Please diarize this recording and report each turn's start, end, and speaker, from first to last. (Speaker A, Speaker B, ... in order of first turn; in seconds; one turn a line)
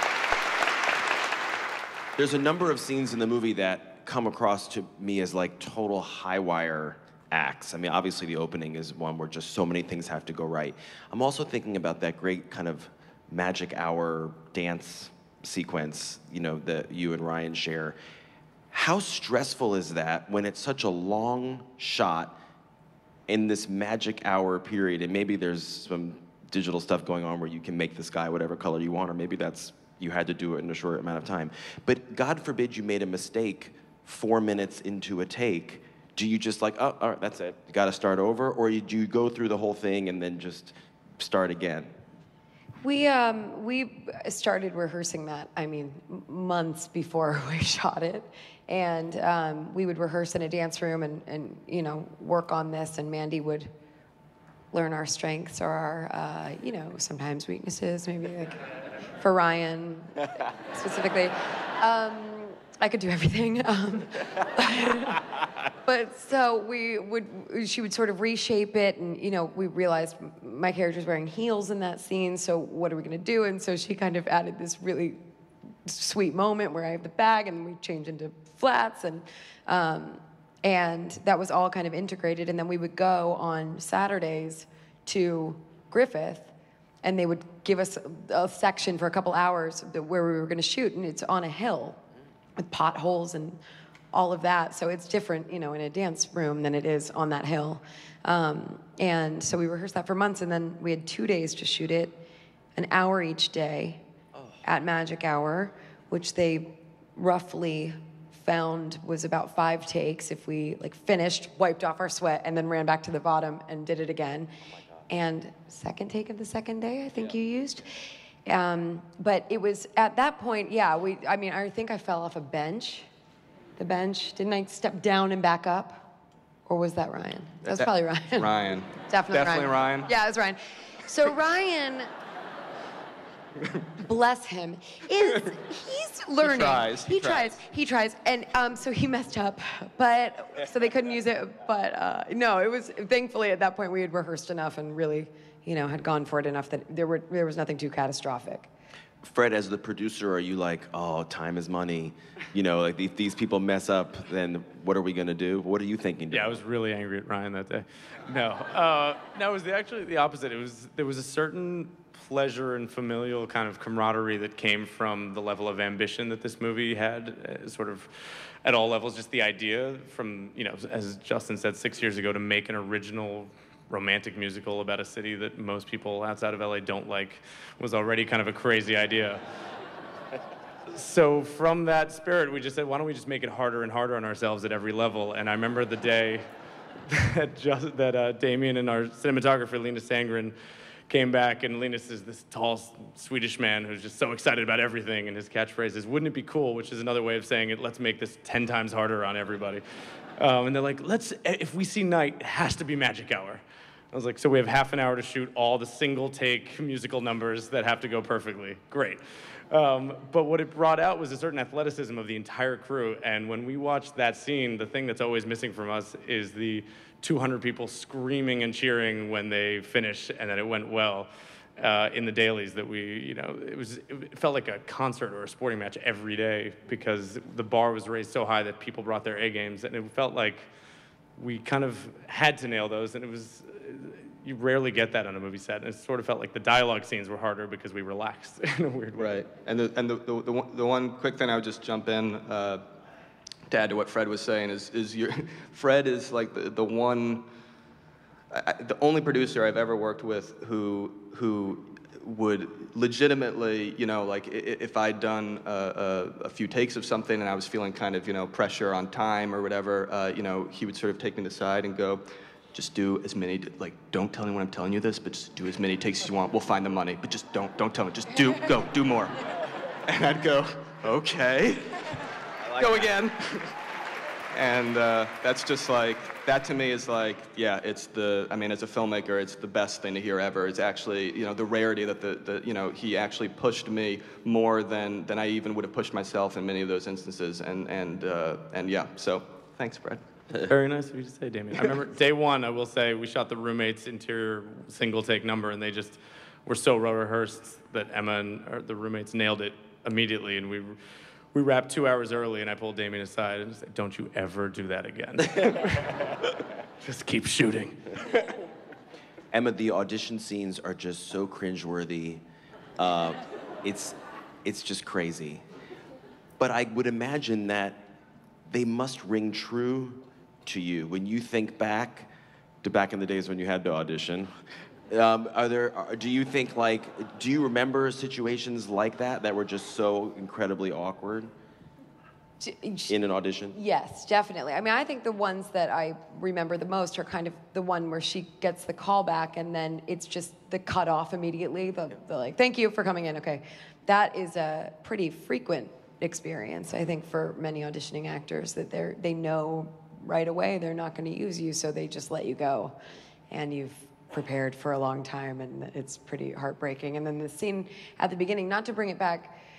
Speaker A: 2.1-17.9
Speaker A: 18.7-22.4
Speaker A: 23.3-41.9
Speaker B: 42.8-53.7
Speaker B: 54.7-58.6
Speaker B: 59.2-75.2
Speaker B: 75.8-86.5
Speaker B: 87.0-92.0
Speaker B: 92.6-93.6
Speaker B: 94.1-102.2
Speaker B: 102.8-104.0
Speaker B: 104.6-114.5
Speaker B: 115.1-123.1
Speaker B: 123.8-126.1
Speaker B: 126.7-128.5
Speaker C: 127.7-130.1
Speaker B: 129.1-132.1
Speaker B: 134.0-148.7
Speaker C: 136.4-137.6
Speaker A: 149.2-156.6
Speaker D: 156.3-168.1
Speaker D: 168.6-179.4
Speaker D: 180.9-186.4
Speaker D: 187.1-190.5
Speaker D: 191.1-199.8
Speaker D: 200.4-203.6
Speaker D: 204.1-209.2
Speaker D: 209.7-230.7
Speaker D: 231.4-239.4
Speaker C: 239.2-242.8
Speaker C: 243.7-247.5
Speaker C: 248.5-269.4
Speaker C: 270.1-272.1
Speaker A: 272.6-273.1
Speaker C: 272.8-273.7
Speaker C: 274.5-290.2
Speaker D: 290.6-301.0
Speaker D: 301.5-308.1
Speaker A: 309.5-312.4
Speaker A: 313.0-315.6
Speaker A: 316.6-318.1
Speaker A: 318.7-322.3
Speaker A: 322.8-324.5
Speaker A: 325.1-331.5
Speaker B: 332.6-333.2
Speaker A: 333.1-333.7
Speaker B: 333.7-352.9
Speaker B: 353.5-359.6